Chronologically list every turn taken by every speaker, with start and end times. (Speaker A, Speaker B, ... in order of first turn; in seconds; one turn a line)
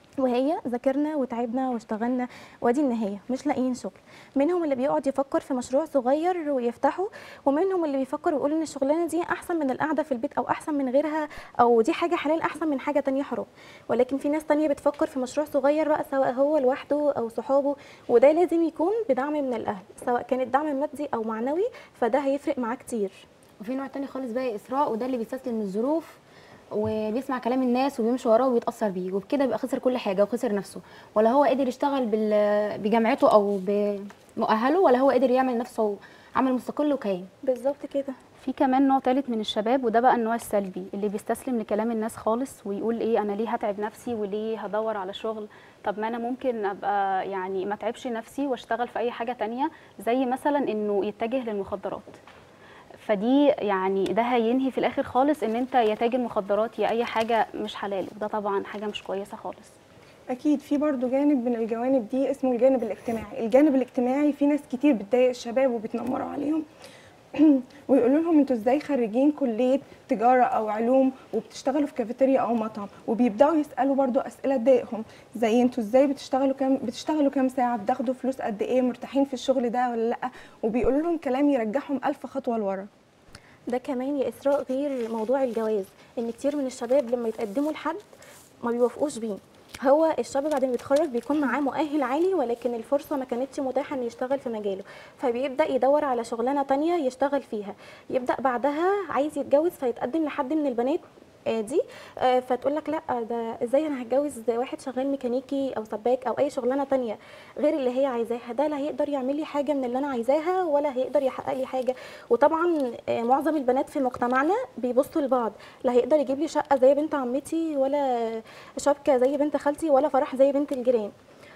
Speaker A: 0.2-23.2
Speaker B: 23.6-26.2
Speaker B: 26.8-37.3
Speaker A: 37.5-38.1
Speaker C: 38.4-52.1
Speaker C: 53.0-59.7
Speaker D: 60.3-66.7
Speaker D: 67.3-82.9
Speaker A: 83.7-88.0
Speaker A: 88.6-121.1